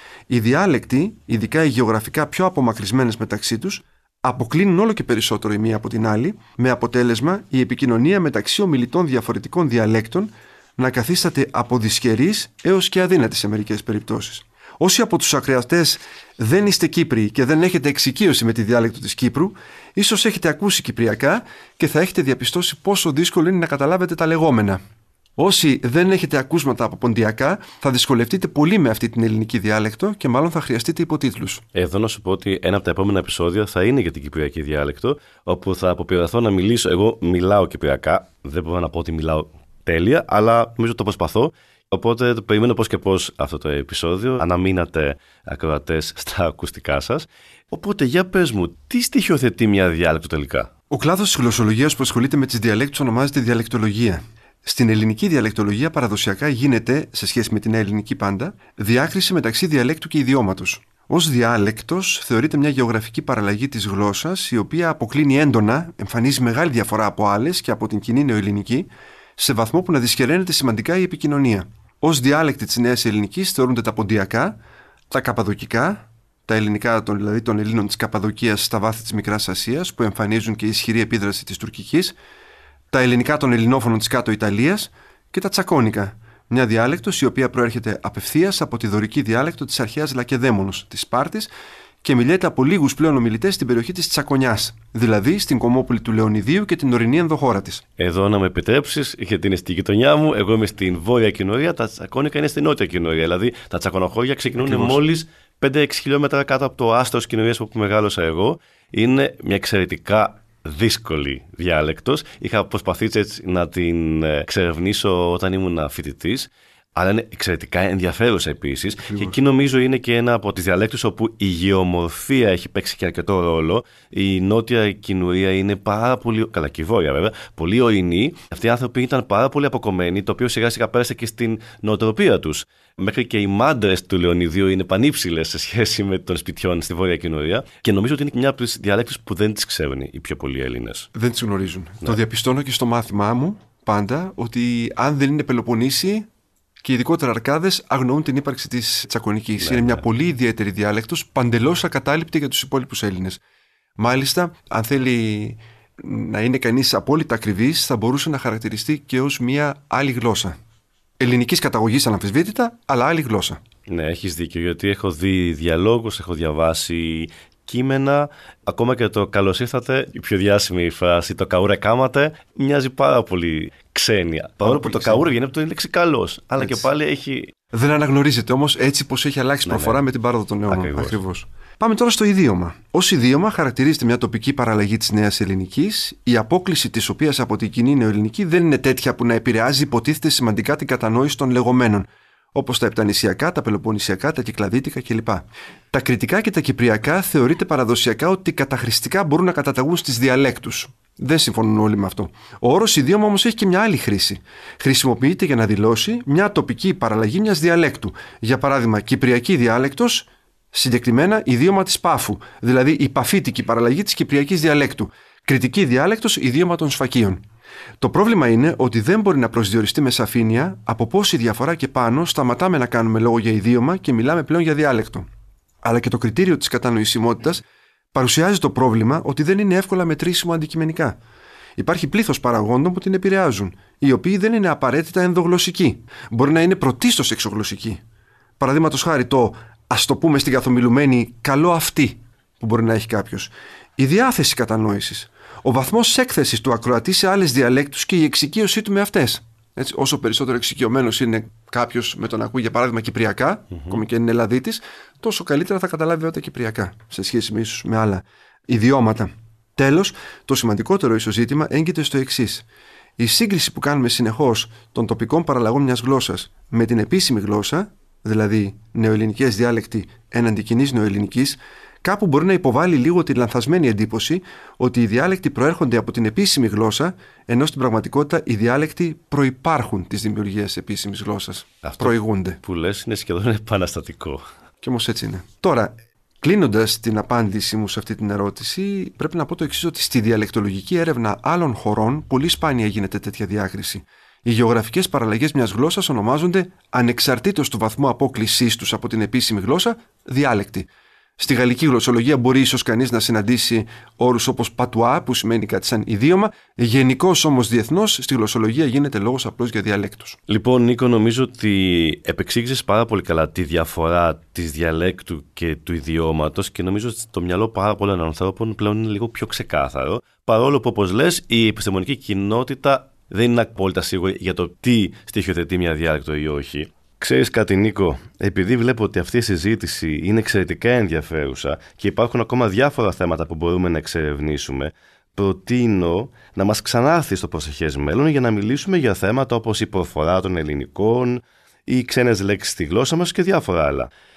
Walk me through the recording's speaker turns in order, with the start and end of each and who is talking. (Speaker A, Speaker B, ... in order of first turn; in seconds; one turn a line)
Speaker A: 0.3-24.8
Speaker A: 25.4-31.6
Speaker B: 31.8-50.7
Speaker A: 50.9-74.6
Speaker A: 75.1-82.1
Speaker A: 82.9-91.5
Speaker A: 92.0-97.8
Speaker B: 98.0-141.1
Speaker A: 104.6-105.0
Speaker A: 119.0-119.4
Speaker A: 141.1-146.3
Speaker A: 146.8-153.4
Speaker B: 149.6-150.0
Speaker A: 154.0-160.6
Speaker A: 161.2-163.6
Speaker B: 163.9-177.5
Speaker A: 174.6-175.3
Speaker A: 176.6-176.8
Speaker A: 177.7-217.4
Speaker B: 179.7-180.0
Speaker B: 180.7-181.2
Speaker A: 218.0-225.3
Speaker A: 225.8-231.2
Speaker A: 231.8-238.0
Speaker A: 238.6-262.6
Speaker A: 263.2-282.6
Speaker B: 281.8-284.4
Speaker A: 284.8-300.9
Speaker A: 301.4-310.4
Speaker B: 310.5-344.1